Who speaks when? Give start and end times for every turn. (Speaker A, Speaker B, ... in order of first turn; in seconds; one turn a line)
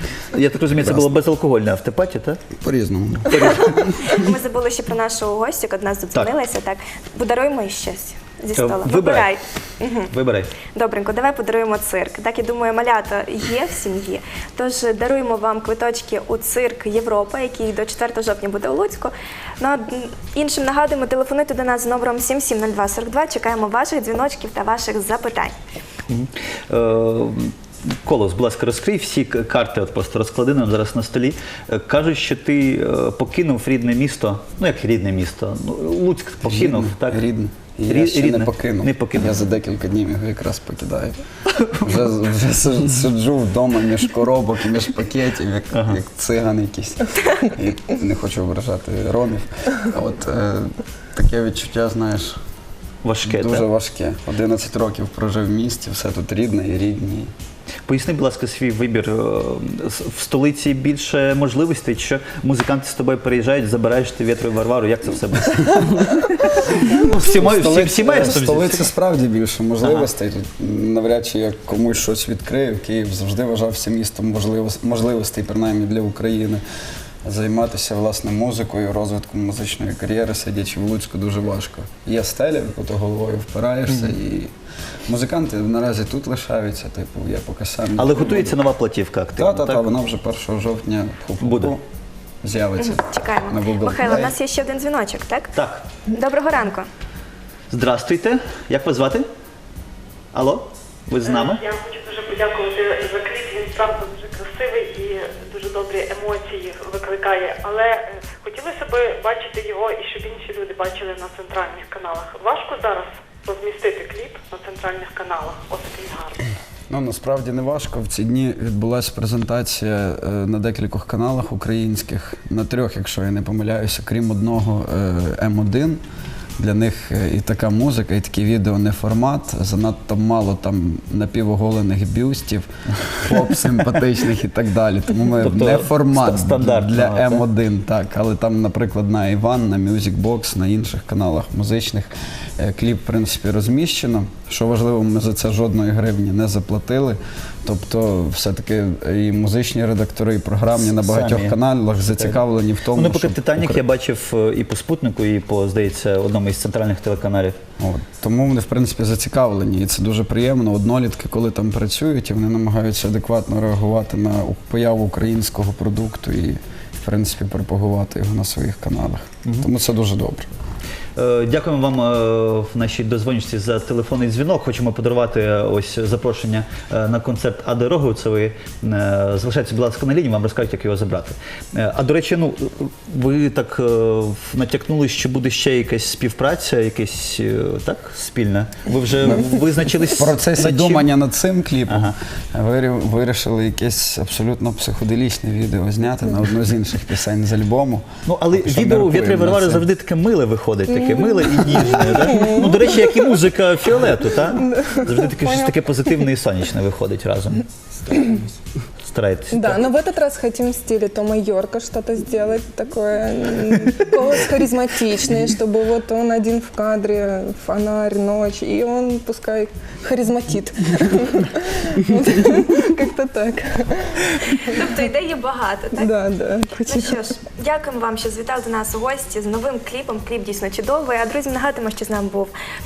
Speaker A: 0.3-2.4
Speaker B: 0.8-1.1
Speaker B: 2.6-4.1
Speaker A: 3.3-4.0
Speaker C: 4.1-10.1
Speaker A: 8.6-9.3
Speaker A: 10.1-10.5
Speaker C: 10.7-25.6
Speaker A: 26.1-37.2
Speaker B: 36.5-41.2
Speaker A: 37.9-39.4
Speaker A: 41.5-42.0
Speaker B: 41.8-52.4
Speaker A: 45.7-46.0
Speaker A: 53.0-53.7
Speaker B: 53.2-57.3
Speaker A: 57.9-68.9
Speaker B: 66.9-76.6
Speaker A: 69.8-70.1
Speaker B: 77.2-84.5
Speaker B: 85.1-88.6
Speaker A: 88.0-89.8
Speaker B: 89.4-91.8
Speaker A: 91.4-91.7
Speaker B: 92.4-94.4
Speaker C: 92.8-95.5
Speaker A: 95.5-95.9
Speaker C: 96.1-96.9
Speaker A: 97.7-99.3
Speaker A: 100.3-101.6
Speaker D: 101.7-107.8
Speaker C: 101.8-107.8
Speaker D: 108.4-116.4
Speaker C: 108.5-112.9
Speaker C: 113.5-114.0
Speaker C: 114.8-115.4
Speaker B: 116.9-126.0
Speaker B: 126.6-153.8
Speaker A: 133.3-134.0
Speaker A: 135.4-137.4
Speaker A: 150.7-152.4
Speaker A: 152.9-157.6
Speaker B: 157.8-170.5
Speaker A: 171.2-191.1
Speaker B: 189.2-189.5
Speaker B: 190.1-199.9
Speaker A: 191.9-192.2
Speaker A: 198.3-207.7
Speaker E: 200.9-203.3
Speaker E: 204.5-205.7
Speaker A: 209.1-209.9
Speaker E: 209.5-224.8
Speaker C: 224.7-226.1
Speaker E: 225.9-227.3
Speaker C: 226.9-232.5